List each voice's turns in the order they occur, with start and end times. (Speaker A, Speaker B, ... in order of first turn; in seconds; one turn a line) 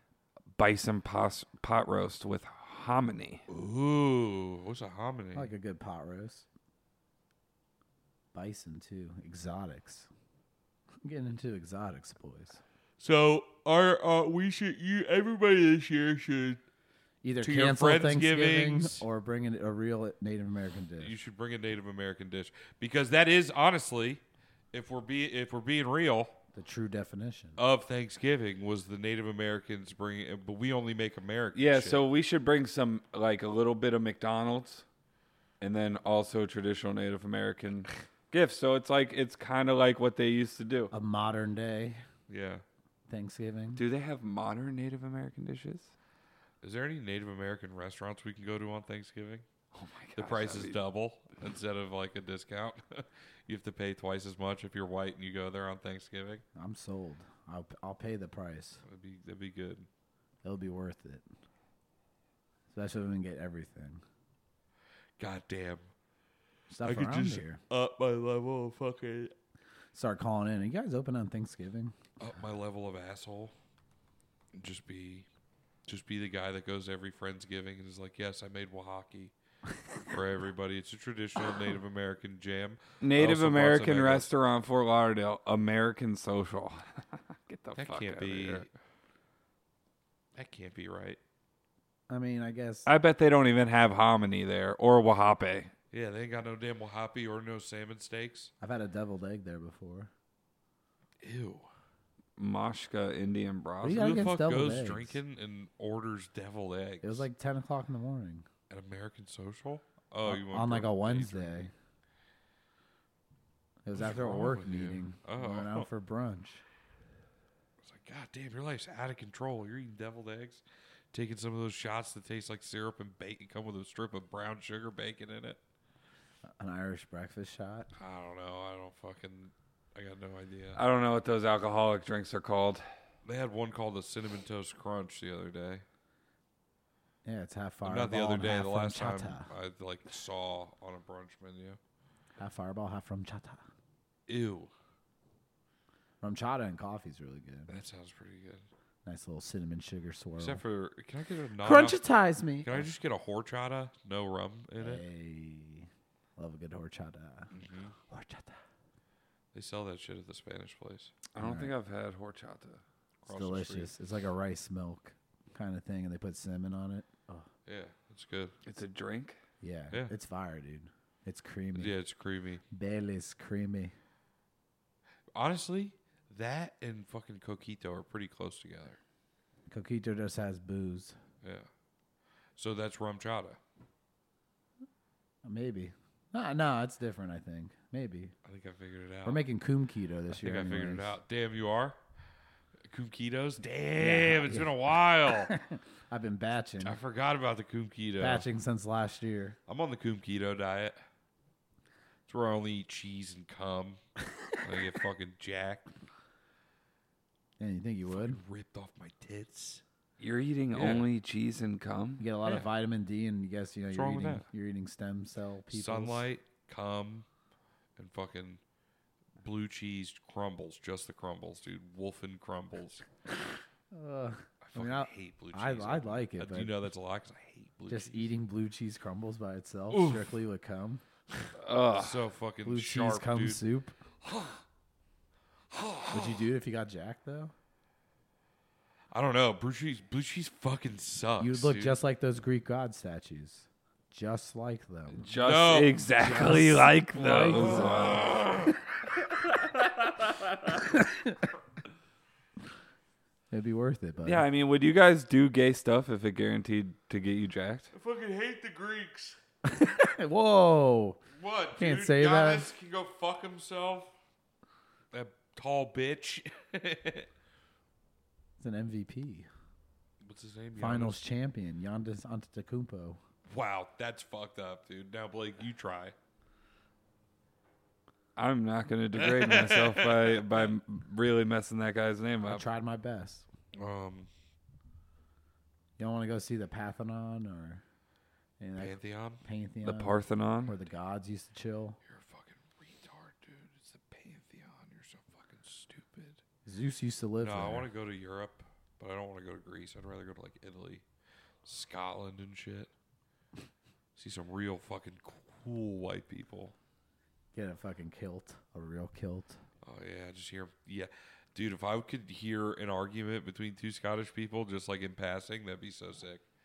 Speaker A: 0.5-3.4
Speaker B: 3.5-5.5
Speaker C: 5.3-6.5
Speaker C: 8.3-10.1
Speaker C: 11.0-12.6
Speaker B: 13.0-16.6
Speaker C: 17.2-21.1
Speaker B: 17.4-19.0
Speaker B: 21.0-26.3
Speaker C: 26.5-27.6
Speaker B: 27.6-32.0
Speaker A: 31.5-34.8
Speaker A: 35.6-40.9
Speaker C: 40.9-42.0
Speaker B: 42.3-42.6
Speaker C: 43.1-43.8
Speaker A: 43.8-45.9
Speaker B: 46.6-49.4
Speaker A: 49.7-50.8
Speaker B: 50.1-56.4
Speaker C: 56.5-58.8
Speaker B: 58.8-59.9
Speaker C: 60.4-61.2
Speaker C: 62.7-64.0
Speaker B: 65.2-65.9
Speaker C: 66.7-67.6
Speaker B: 66.8-69.3
Speaker C: 69.9-71.9
Speaker B: 72.2-73.5
Speaker B: 74.5-75.3
Speaker B: 75.8-79.3
Speaker B: 80.1-84.3
Speaker A: 83.0-88.7
Speaker B: 87.8-88.7
Speaker B: 90.3-91.2
Speaker C: 92.1-92.9
Speaker A: 92.8-95.7
Speaker B: 95.9-98.5
Speaker C: 98.6-100.1
Speaker B: 101.2-101.7
Speaker A: 102.4-104.1
Speaker C: 103.8-105.2
Speaker B: 103.9-107.3
Speaker C: 107.0-108.5
Speaker B: 108.7-111.7
Speaker C: 110.2-111.7
Speaker C: 113.8-116.6
Speaker B: 113.9-115.9
Speaker B: 117.8-125.6
Speaker C: 126.6-127.9
Speaker B: 128.0-130.8
Speaker A: 130.8-132.8
Speaker B: 133.2-135.8
Speaker C: 137.2-139.5
Speaker B: 137.8-141.8
Speaker C: 142.4-143.6
Speaker B: 144.3-144.7
Speaker C: 146.2-147.7
Speaker B: 147.7-148.7
Speaker C: 149.0-150.6
Speaker B: 150.4-152.0
Speaker C: 151.6-152.9
Speaker B: 152.6-155.0
Speaker C: 154.8-157.5
Speaker B: 157.5-157.9
Speaker C: 158.1-158.6
Speaker B: 159.5-161.1
Speaker A: 161.3-162.8
Speaker C: 161.4-161.7
Speaker B: 163.2-163.9
Speaker C: 163.3-167.5
Speaker B: 167.7-168.5
Speaker A: 168.6-169.4
Speaker C: 169.6-171.9
Speaker B: 171.7-172.6
Speaker C: 172.7-173.9
Speaker B: 175.3-179.0
Speaker C: 179.7-181.2
Speaker B: 181.4-181.7
Speaker B: 182.6-183.6
Speaker C: 185.4-188.3
Speaker B: 188.4-189.4
Speaker C: 189.2-191.2
Speaker B: 190.3-192.0
Speaker B: 192.9-195.5
Speaker C: 194.0-194.7
Speaker C: 195.3-197.0
Speaker B: 196.8-198.5
Speaker C: 198.2-199.6
Speaker B: 199.7-201.0
Speaker B: 202.3-204.0
Speaker B: 204.6-205.8
Speaker C: 207.6-208.4
Speaker B: 208.1-209.8
Speaker A: 210.2-212.2
Speaker B: 210.7-211.1
Speaker C: 212.2-216.2
Speaker B: 212.4-212.7
Speaker B: 213.9-214.4
Speaker B: 215.7-217.3
Speaker B: 217.9-218.6
Speaker B: 219.4-223.0
Speaker C: 223.9-226.8
Speaker B: 224.6-228.3
Speaker C: 227.9-231.0
Speaker B: 229.9-230.3
Speaker B: 231.4-233.6
Speaker A: 231.6-232.2
Speaker C: 232.6-234.0
Speaker B: 234.2-234.6
Speaker B: 235.7-236.5
Speaker C: 236.1-237.5
Speaker B: 239.1-242.0
Speaker C: 241.4-245.3
Speaker A: 245.2-248.3
Speaker B: 245.3-246.4
Speaker C: 246.2-248.3
Speaker B: 247.5-248.7
Speaker C: 250.7-251.4
Speaker C: 253.5-254.4
Speaker A: 254.2-257.9
Speaker B: 257.9-259.4
Speaker C: 259.6-261.2
Speaker B: 261.3-264.1
Speaker C: 261.8-262.7
Speaker B: 265.1-267.3
Speaker C: 268.6-269.5
Speaker B: 270.2-271.2
Speaker C: 270.8-273.2
Speaker B: 273.5-276.1
Speaker A: 278.4-282.6
Speaker B: 279.1-280.7
Speaker C: 282.5-283.4
Speaker B: 283.7-284.3
Speaker C: 286.0-287.8
Speaker C: 288.6-292.0
Speaker B: 288.8-289.4
Speaker A: 289.8-290.7
Speaker B: 292.1-296.4
Speaker C: 296.6-297.9
Speaker B: 297.4-301.0
Speaker B: 301.6-302.9
Speaker B: 304.1-306.7
Speaker C: 307.5-309.6
Speaker B: 309.8-316.4